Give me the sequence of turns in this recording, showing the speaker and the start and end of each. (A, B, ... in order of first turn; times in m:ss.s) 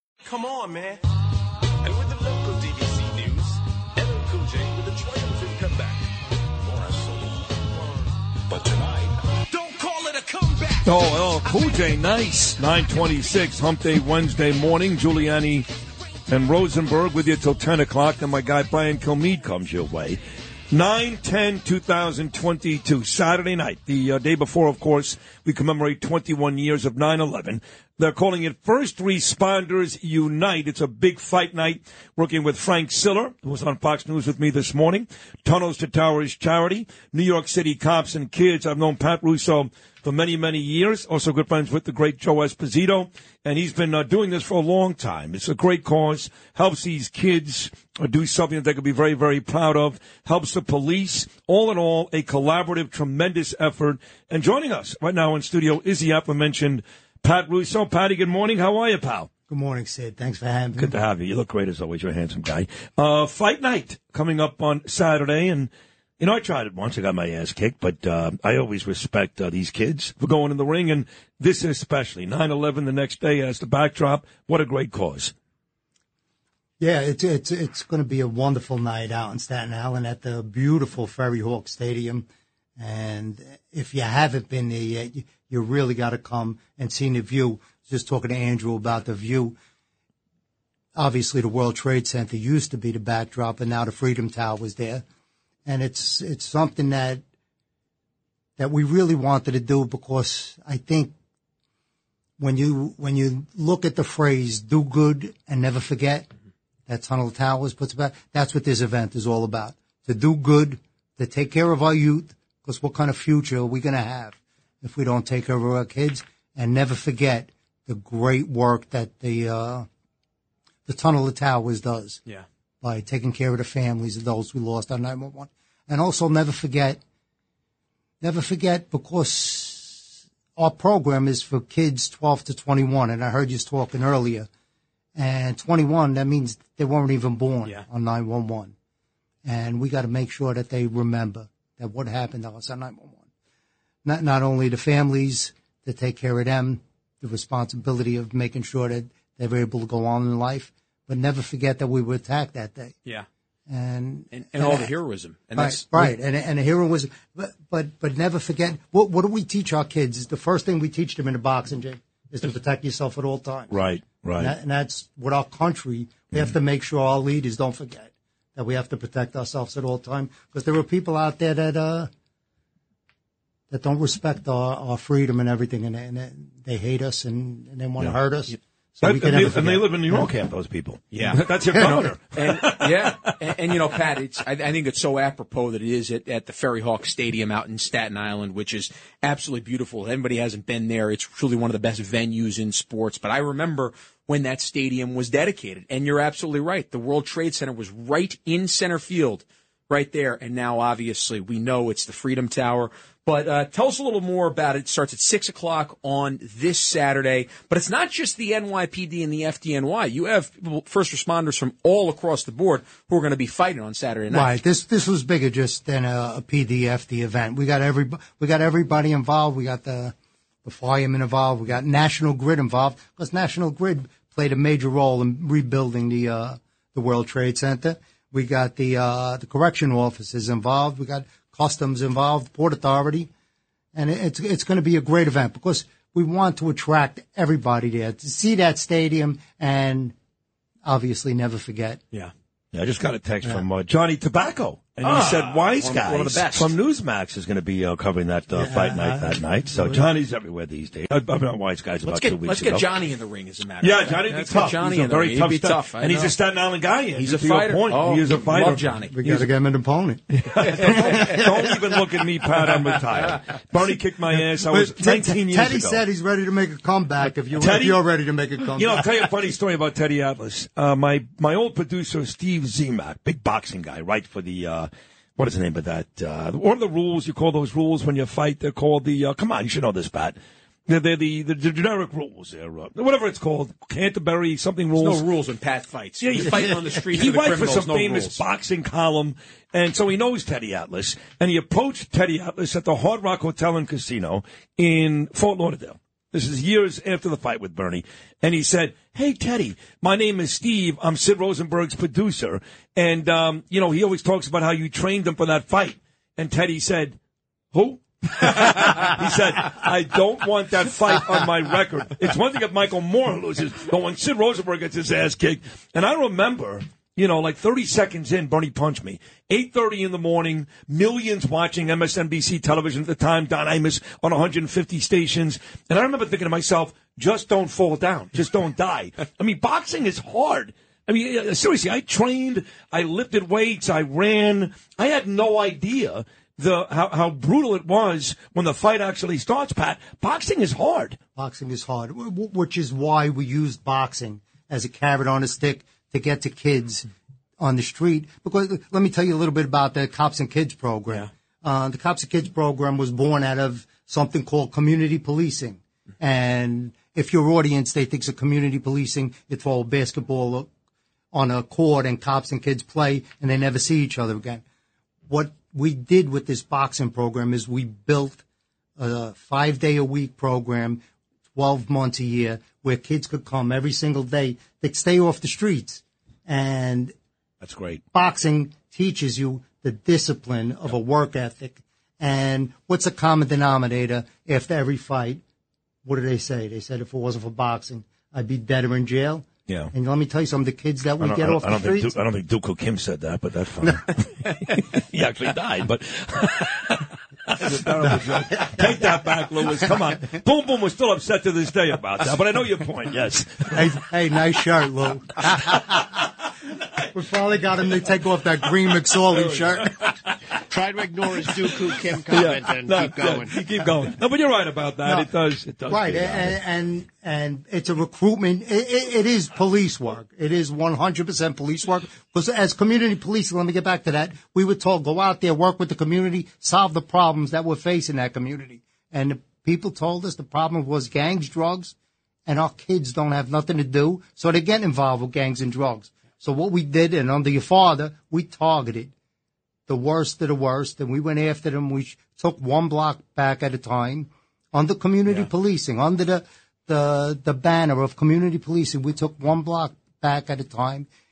0:00.3-0:01.0 A
0:01.8-0:06.0 A
0:06.7-0:07.7 A
0:09.5-0:10.8 A
0:10.8-0:15.7 B
0:16.3-0:20.2 B
0:20.7-0:59.3 B
0:59.5-1:01.0 C
1:00.8-1:15.3 B
1:16.8-1:22.3 C
1:22.8-1:29.6 C
1:31.0-1:35.0 C
1:35.7-1:37.2 C
1:38.6-1:41.1 C
1:42.4-1:46.3 C
1:46.9-1:59.9 C
2:00.9-2:02.2 C
2:02.8-2:07.0 C
2:08.2-2:14.5 C
2:15.2-2:18.7 C
2:19.4-2:23.2 C
2:24.0-2:33.0 C
2:33.7-2:34.9 C
2:34.3-2:36.2 D
2:35.6-2:43.8 C
2:43.7-2:44.5 B
2:44.4-2:52.1 C
2:53.7-3:00.3 C
2:59.0-3:03.3 B
3:01.1-3:34.6 D
3:34.3-3:53.3 C
3:53.9-4:00.2 C
4:00.8-4:02.0 C
4:02.7-4:12.9 B
4:05.0-4:06.8 D
4:08.5-4:10.0 C
4:12.0-4:16.4 D
4:13.8-4:19.5 B
4:17.1-4:19.4 D
4:18.6-4:22.0 C
4:20.5-4:26.0 B
4:20.6-4:21.4 D
4:22.7-4:23.4 D
4:24.5-4:29.1 C
4:27.6-4:28.0 B
4:28.8-4:40.4 B
4:40.9-4:45.2 B
4:45.0-4:48.4 D
4:46.2-5:07.2 B
5:07.7-5:41.2 B
5:41.4-5:47.1 C
5:47.6-6:00.7 C
6:01.3-6:04.6 C
6:05.3-6:08.4 C
6:09.0-6:11.0 C
6:11.5-6:17.1 C
6:17.6-6:18.0 B
6:18.1-6:25.4 C
6:26.0-6:32.1 C
6:29.7-6:29.9 B
6:31.2-6:43.8 B
6:38.1-6:39.1 C
6:43.7-6:46.3 C
6:47.1-6:50.1 C
6:49.6-6:50.3 B
6:50.7-6:53.7 E
6:51.6-6:56.6 B
6:55.0-6:55.3 C
6:55.9-7:12.0 C
7:12.5-7:19.1 C
7:19.9-7:31.1 C